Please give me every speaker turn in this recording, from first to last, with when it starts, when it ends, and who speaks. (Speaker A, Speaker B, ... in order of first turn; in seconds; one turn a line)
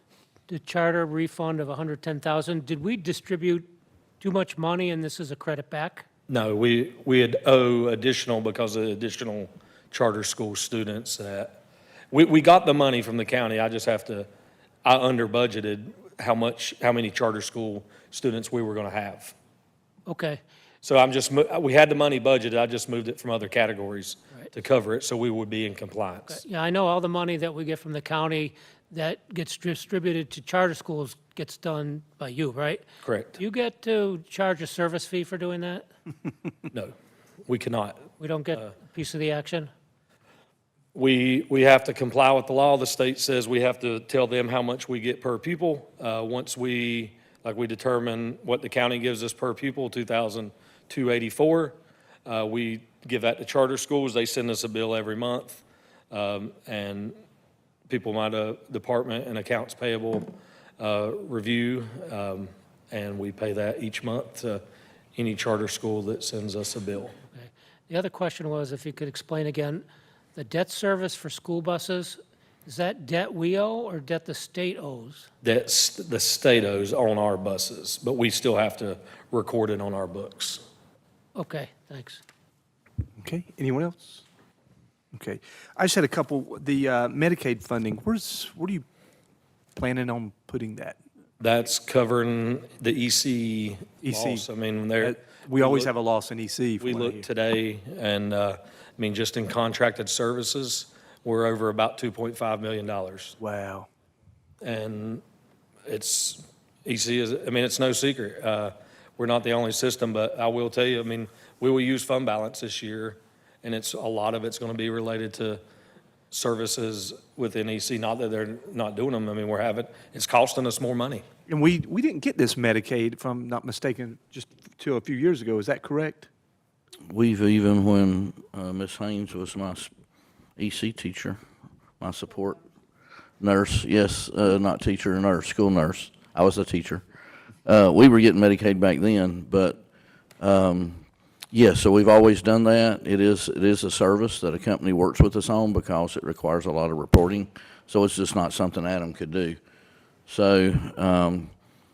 Speaker A: 0.5-3.7
Speaker A: 4.2-6.1
Speaker B: 6.3-11.6
Speaker B: 12.1-14.3
Speaker B: 14.8-19.3
Speaker A: 20.1-20.4
Speaker B: 20.8-26.4
Speaker A: 26.3-32.8
Speaker B: 33.0-33.4
Speaker A: 33.4-35.9
Speaker B: 37.5-38.1
Speaker A: 38.2-39.7
Speaker B: 40.9-57.2
Speaker B: 57.9-64.6
Speaker B: 65.2-67.2
Speaker A: 67.3-75.3
Speaker B: 75.4-80.6
Speaker A: 81.3-82.2
Speaker C: 83.2-84.2
Speaker C: 85.1-88.8
Speaker C: 89.8-91.0
Speaker B: 91.4-95.9
Speaker C: 94.0-94.5
Speaker C: 95.0-97.3
Speaker B: 96.8-103.4
Speaker C: 103.4-103.9
Speaker B: 104.6-105.2
Speaker B: 105.8-115.6
Speaker B: 116.3-121.2
Speaker C: 121.5-126.3
Speaker D: 127.1-129.9
Speaker D: 130.6-131.4
Speaker D: 132.0-132.6
Speaker D: 133.4-137.1
Speaker D: 137.7-139.8
Speaker D: 140.4-149.6
Speaker D: 150.3-151.5